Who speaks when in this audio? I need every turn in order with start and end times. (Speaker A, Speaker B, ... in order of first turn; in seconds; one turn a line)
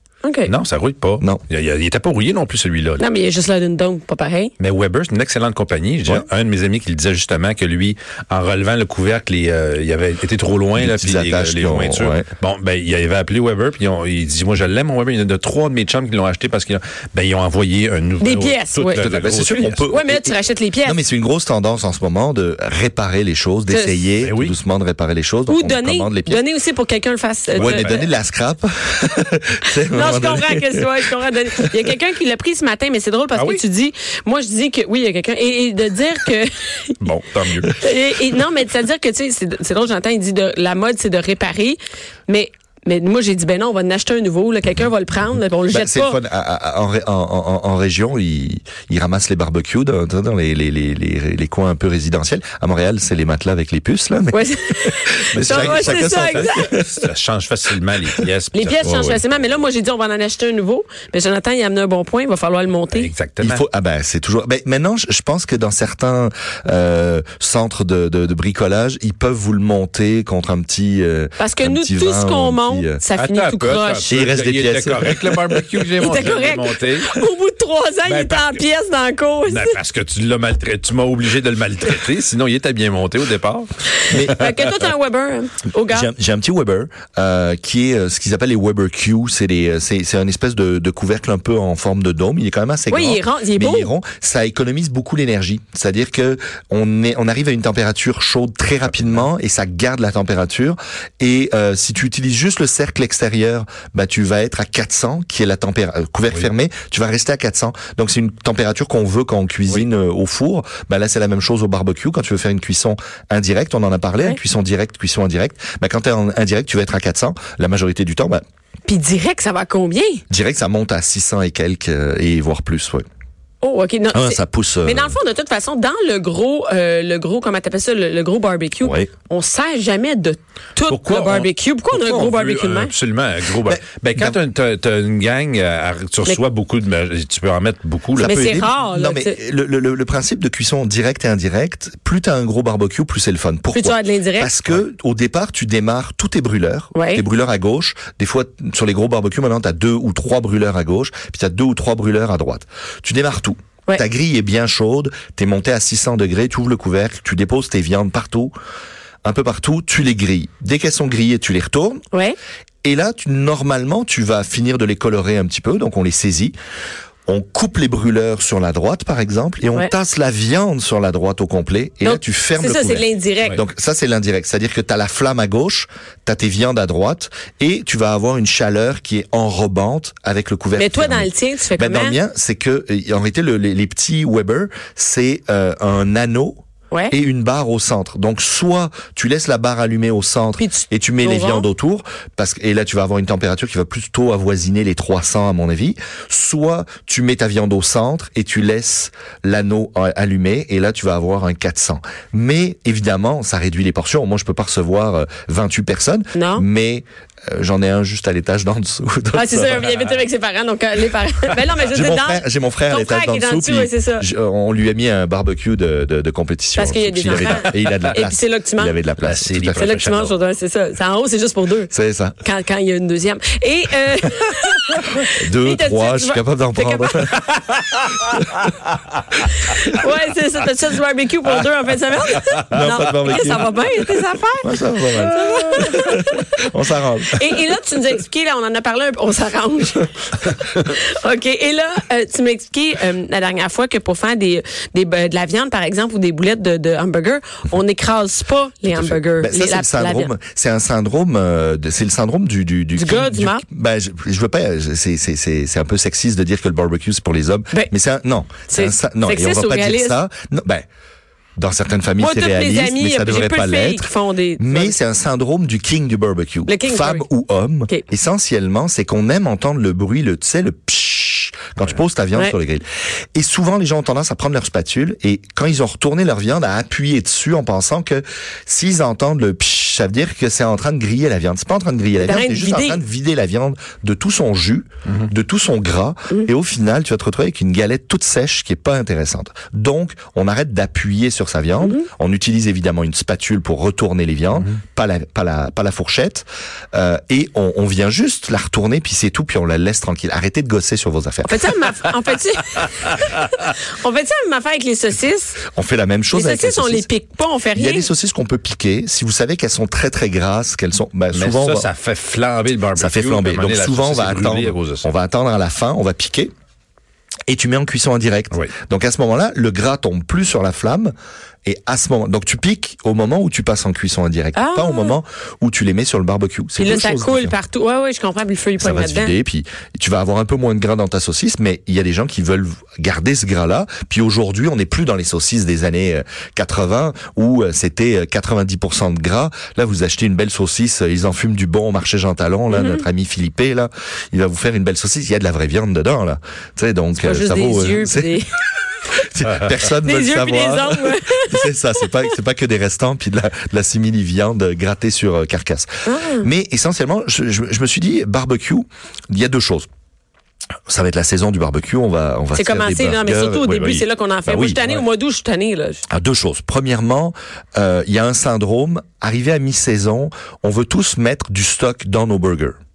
Speaker A: 0.2-0.5
Speaker B: 0.5-3.0
Speaker A: 3.0-4.5
Speaker B: 4.6-19.8
Speaker C: 10.8-12.3
Speaker A: 18.2-21.0
Speaker C: 18.9-26.4
Speaker A: 23.7-24.1
Speaker B: 24.2-24.5
Speaker A: 25.5-28.1
Speaker B: 27.5-28.0
Speaker C: 27.5-30.9
Speaker A: 29.9-37.0
Speaker B: 33.3-33.6
Speaker B: 37.0-37.7
Speaker A: 37.7-46.2
Speaker C: 45.7-57.0
Speaker A: 54.3-56.7
Speaker B: 55.4-59.2
Speaker A: 58.5-63.1
Speaker C: 58.8-59.2
Speaker B: 62.9-63.6
Speaker C: 63.4-73.0
Speaker A: 71.4-74.1
Speaker B: 73.2-77.2
Speaker C: 74.1-75.7
Speaker A: 76.0-79.8
Speaker B: 78.0-78.6
Speaker B: 79.5-84.5
Speaker A: 84.0-86.1
Speaker C: 84.1-84.4
Speaker C: 85.9-118.4
Speaker A: 92.9-93.9
Speaker B: 99.0-99.2
Speaker A: 118.9-120.2
Speaker C: 120.3-123.0
Speaker A: 123.6-132.9
Speaker C: 124.1-125.2
Speaker C: 128.8-129.1
Speaker B: 130.9-138.4
Speaker C: 133.7-134.4
Speaker C: 138.2-158.5
Speaker A: 138.2-139.4
Speaker A: 143.7-144.5
Speaker A: 146.9-147.2
Speaker C: 159.2-162.0
Speaker C: 162.8-166.5
Speaker C: 167.3-186.6
Speaker A: 172.0-173.6
Speaker A: 180.8-182.2
Speaker C: 187.1-209.8
Speaker A: 190.6-191.7
Speaker A: 206.3-206.6
Speaker A: 209.3-214.2
Speaker C: 211.8-219.9
Speaker A: 216.8-218.9
Speaker B: 219.2-220.3
Speaker A: 219.8-221.9
Speaker C: 221.9-222.3
Speaker A: 222.4-227.3
Speaker C: 225.4-227.4
Speaker A: 229.7-236.6
Speaker C: 232.7-233.9
Speaker B: 232.8-233.4
Speaker C: 234.6-237.7
Speaker A: 237.3-250.3
Speaker C: 248.9-260.8
Speaker A: 252.9-253.6
Speaker A: 258.7-260.2
Speaker C: 261.6-272.8
Speaker A: 262.2-264.9
Speaker A: 266.7-267.3
Speaker C: 273.3-301.7
Speaker A: 282.2-283.0
Speaker A: 301.4-305.6
Speaker C: 305.7-307.1
Speaker A: 306.3-308.1
Speaker C: 307.7-311.9
Speaker B: 311.3-315.1
Speaker C: 312.9-316.5
Speaker C: 317.5-321.1
Speaker C: 321.6-327.6
Speaker A: 324.5-325.1
Speaker A: 326.8-329.3
Speaker C: 328.8-348.4
Speaker A: 342.7-343.0
Speaker A: 347.2-348.5
Speaker C: 349.2-355.9
Speaker A: 350.0-352.3
Speaker A: 356.0-356.5
Speaker C: 356.4-359.9
Speaker C: 360.9-365.0
Speaker A: 362.5-366.0
Speaker C: 366.1-372.7